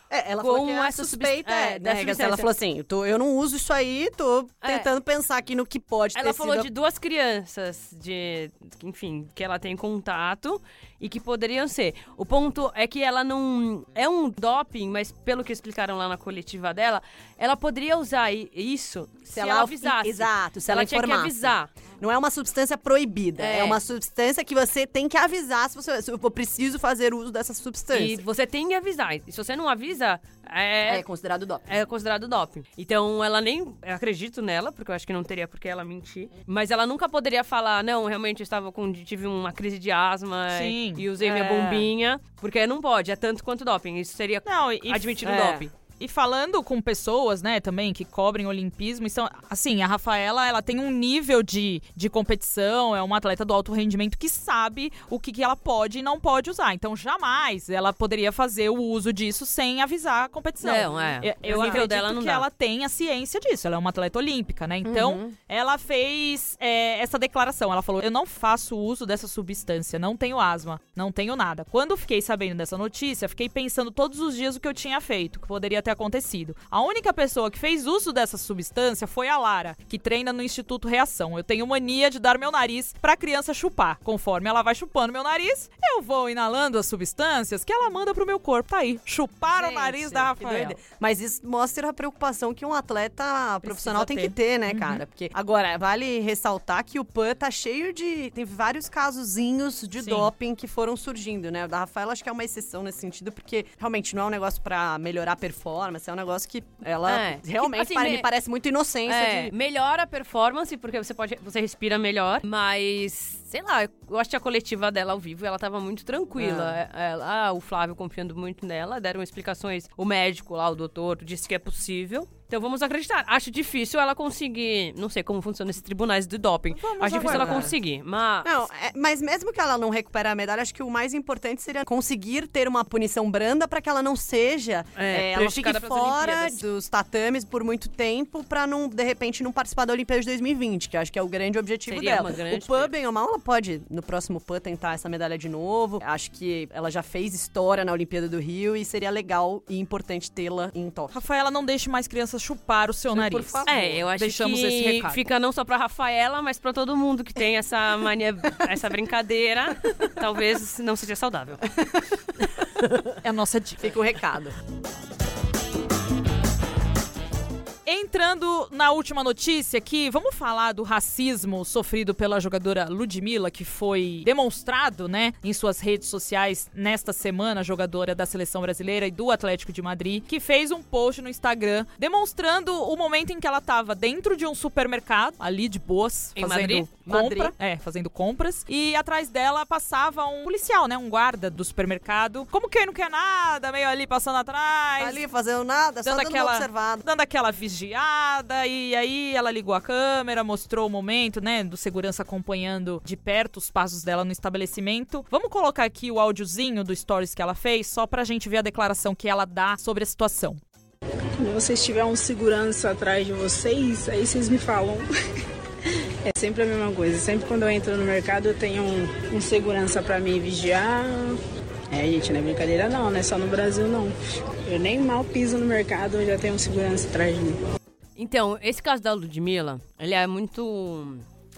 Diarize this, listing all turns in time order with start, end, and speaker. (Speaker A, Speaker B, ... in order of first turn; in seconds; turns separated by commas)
Speaker A: 0.1-6.7, Speaker B: 0.4-2.5, Speaker B: 4.6-4.9, Speaker B: 6.2-21.7, Speaker A: 19.3-28.2, Speaker B: 23.4-23.8, Speaker B: 27.9-31.0, Speaker A: 30.8-31.6, Speaker B: 31.7-45.7, Speaker C: 40.5-41.9, Speaker C: 44.5-45.3, Speaker A: 45.2-45.7, Speaker C: 46.0-90.8, Speaker B: 60.6-62.4, Speaker A: 61.5-61.9, Speaker A: 64.8-65.3, Speaker A: 89.5-109.5, Speaker C: 93.6-95.0, Speaker C: 100.0-100.3, Speaker B: 107.0-108.3, Speaker B: 109.0-128.5, Speaker A: 116.4-116.8, Speaker C: 126.7-127.7, Speaker A: 127.1-127.7, Speaker A: 128.4-151.2, Speaker B: 134.9-136.6, Speaker B: 141.8-142.9, Speaker C: 151.1-155.2, Speaker A: 153.1-154.1, Speaker B: 153.7-161.6, Speaker C: 163.2-164.0, Speaker A: 163.8-164.6, Speaker C: 167.8-195.2, Speaker B: 186.4-186.9, Speaker A: 187.1-187.5, Speaker A: 195.0-197.0, Speaker C: 196.0-210.6, Speaker D: 211.4-215.1, Speaker D: 216.2-221.4, Speaker D: 221.9-224.1, Speaker D: 224.7-227.6, Speaker B: 228.2-231.2